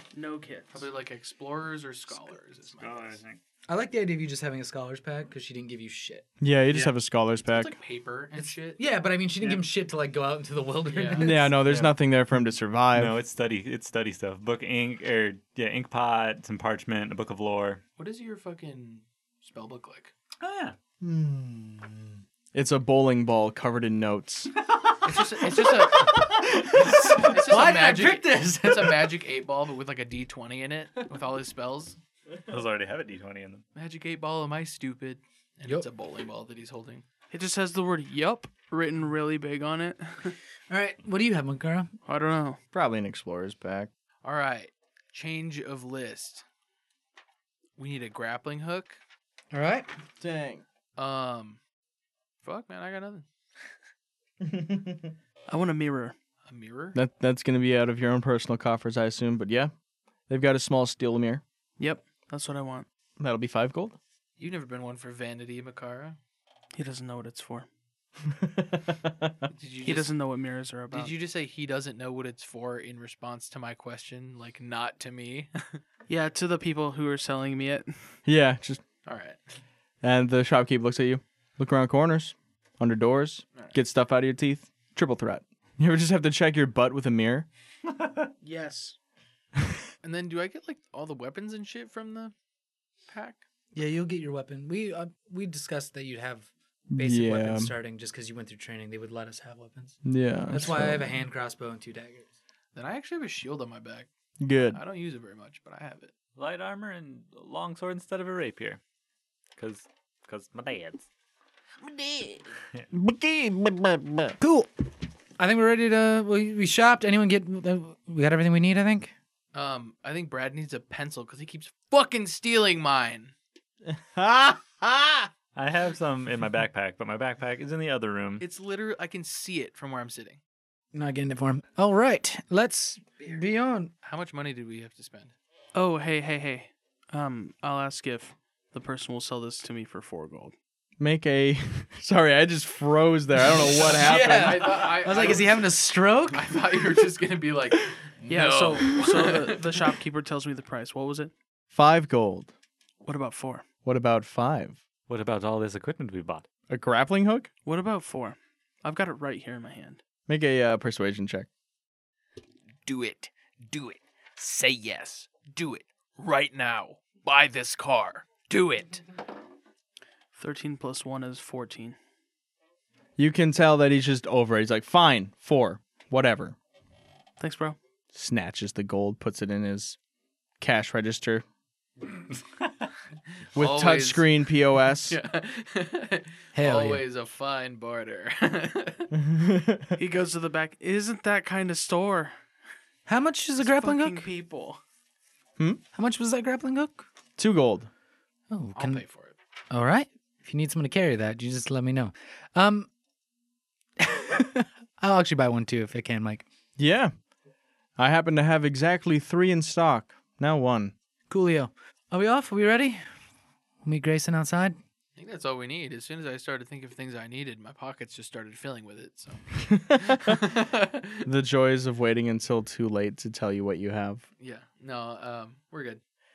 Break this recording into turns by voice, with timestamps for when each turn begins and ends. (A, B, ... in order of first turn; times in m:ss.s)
0:00.1-0:00.8 A
0:00.7-0:03.2 B
0:02.8-0:03.4 C
0:03.7-0:06.3 D
0:06.4-0:07.7 E
0:07.4-0:08.8 B
0:08.4-0:11.6 D
0:10.9-0:11.3 B
0:11.2-0:13.2 E
0:11.6-0:12.0 C
0:12.9-0:17.8 C
0:18.0-0:20.1 B
0:20.4-0:20.8 C
0:21.0-0:22.0 E
0:22.5-0:24.5 E
0:25.0-0:32.0 B
0:26.7-0:29.1 D
0:32.5-0:33.6 C
0:33.8-0:37.1 B
0:37.3-0:40.4 A
0:40.7-0:41.9 D
0:42.1-0:42.6 A
0:42.7-0:43.9 E
0:44.2-0:46.4 B
0:47.8-0:49.0 B
0:49.5-0:49.9 D
0:50.2-0:50.6 E
0:51.0-0:51.6 B
0:52.4-0:53.3 B
0:54.4-0:55.0 E
0:55.5-0:56.2 A
0:56.4-0:57.0 B
0:57.0-0:59.7 E
1:00.3-1:01.4 E
1:01.8-1:02.9 A
1:03.2-1:04.0 E
1:04.4-1:06.2 B
1:06.8-1:07.7 A
1:08.4-1:09.3 E
1:09.5-1:10.1 B
1:09.8-1:11.1 A
1:10.9-1:15.8 B
1:16.1-1:18.2 A
1:18.3-1:18.8 E
1:19.0-1:19.4 B
1:20.0-1:27.5 E
1:28.4-1:29.0 A
1:30.0-1:32.3 B
1:33.1-1:33.4 B
1:33.7-1:42.3 D
1:36.9-1:37.7 E
1:40.0-1:41.1 E
1:42.7-1:44.1 B
1:44.4-1:44.8 E
1:44.7-1:46.1 B
1:46.4-1:48.8 C
1:49.6-1:51.1 C
1:52.0-1:52.3 B
1:52.9-1:54.3 E
1:54.4-1:54.7 D
1:55.4-1:59.1 D
1:59.5-2:03.3 B
2:03.9-2:05.3 E
2:05.6-2:08.4 C
2:08.4-2:10.4 B
2:10.9-2:13.9 D
2:14.0-2:15.3 B
2:15.8-2:20.5 A
2:21.0-2:24.8 E
2:23.5-2:26.5 D
2:23.8-2:25.6 B
2:26.3-2:29.6 B
2:28.3-2:31.3 A
2:31.7-2:32.5 E
2:33.0-2:33.6 A
2:33.9-2:34.8 E
2:35.1-2:36.5 C
2:36.7-2:37.5 E
2:37.6-2:40.0 A
2:40.3-2:41.5 E
2:42.8-2:49.0 B
2:50.4-2:52.0 A
2:53.2-2:56.6 E
2:57.4-2:57.8 A
2:58.1-3:00.0 E
3:00.6-3:01.4 E
3:03.5-3:04.3 B
3:03.6-3:05.2 E
3:05.0-3:09.1 B
3:06.5-3:07.0 D
3:09.1-3:10.0 E
3:10.0-3:12.4 A
3:13.1-3:14.3 D
3:13.6-3:14.8 A
3:15.9-3:17.1 D
3:17.4-3:17.9 E
3:18.5-3:19.0 D
3:18.8-3:19.4 B
3:19.7-3:22.9 D
3:24.0-3:26.5 D
3:26.8-3:27.1 E
3:28.0-3:30.9 E
3:31.3-3:33.0 D
3:33.8-3:34.8 D
3:35.2-3:39.5 B
3:39.7-3:40.4 E
3:40.0-3:41.3 B
3:41.2-3:44.2 E
3:44.4-3:46.0 B